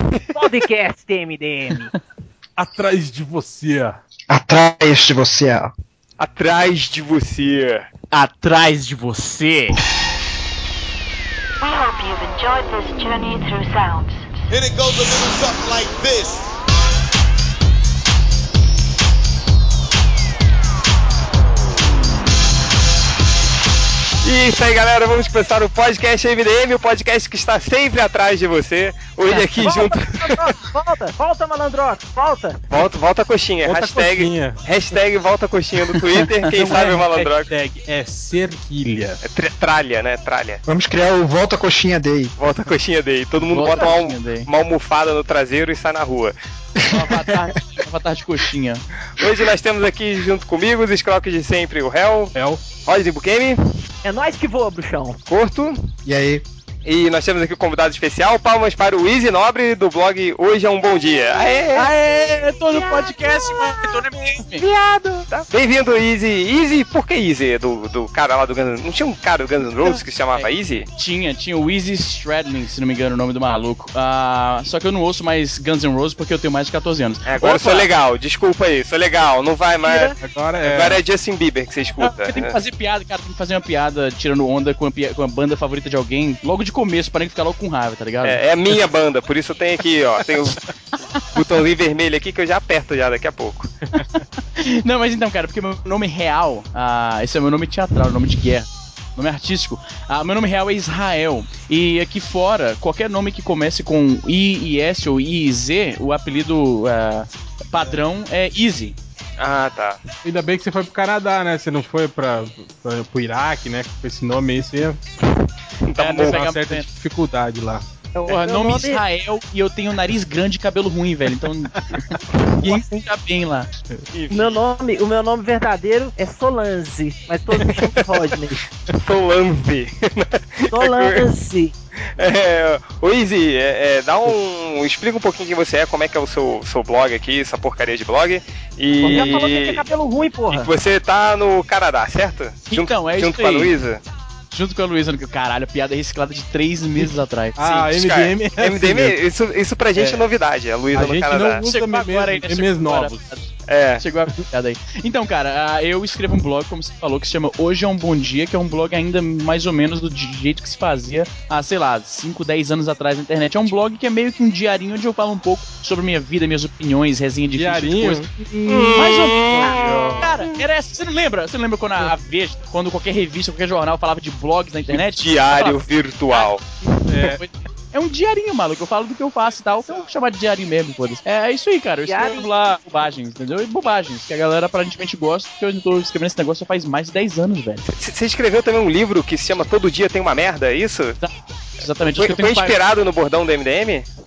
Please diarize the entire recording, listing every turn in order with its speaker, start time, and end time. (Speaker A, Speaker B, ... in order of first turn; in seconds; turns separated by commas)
Speaker A: 0.3-1.9, Speaker B: 2.6-4.0, Speaker C: 4.3-5.7, Speaker D: 6.2-7.9, Speaker A: 8.1-9.8, Speaker E: 11.6-14.5, Speaker F: 14.5-16.5, Speaker D: 24.2-30.5, Speaker A: 29.3-32.6, Speaker D: 32.7-37.5, Speaker B: 33.6-34.6, Speaker G: 36.0-36.5, Speaker B: 36.5-39.2, Speaker D: 39.2-40.6, Speaker C: 40.6-42.3, Speaker D: 42.4-46.9, Speaker G: 43.5-44.5, Speaker G: 46.9-48.8, Speaker D: 49.2-53.6, Speaker B: 52.3-52.6, Speaker A: 54.0-55.2, Speaker D: 55.3-55.9, Speaker C: 56.0-56.4, Speaker D: 56.8-61.9, Speaker G: 61.7-64.7, Speaker A: 62.7-63.2, Speaker D: 64.8-70.9, Speaker G: 69.8-77.9, Speaker D: 77.2-82.6, Speaker A: 79.8-80.2, Speaker B: 80.2-81.0, Speaker G: 82.0-88.4, Speaker D: 88.2-90.6, Speaker D: 91.3-93.7, Speaker G: 93.9-109.0, Speaker D: 109.4-110.0, Speaker B: 110.2-115.0, Speaker D: 115.8-116.4, Speaker G: 116.0-116.9, Speaker B: 116.2-117.8, Speaker A: 118.1-119.0, Speaker G: 118.3-123.7, Speaker B: 121.9-122.2, Speaker D: 124.1-124.6, Speaker A: 124.3-128.6, Speaker D: 127.5-128.2, Speaker D: 128.9-131.2, Speaker A: 130.7-131.7, Speaker D: 132.2-139.8, Speaker A: 139.0-140.7, Speaker D: 140.5-144.0, Speaker G: 142.7-143.7, Speaker G: 144.5-147.9, Speaker B: 147.0-149.2, Speaker D: 147.9-151.6, Speaker B: 149.9-150.2, Speaker B: 150.9-153.3, Speaker G: 151.6-153.5, Speaker D: 153.7-154.0, Speaker G: 154.0-168.2, Speaker B: 167.6-170.3, Speaker D: 168.7-170.3, Speaker G: 168.9-176.5, Speaker D: 174.9-176.7, Speaker B: 177.1-177.4, Speaker G: 177.2-187.9, Speaker A: 182.0-182.5, Speaker D: 187.9-191.2, Speaker G: 191.2-192.8, Speaker D: 192.1-194.1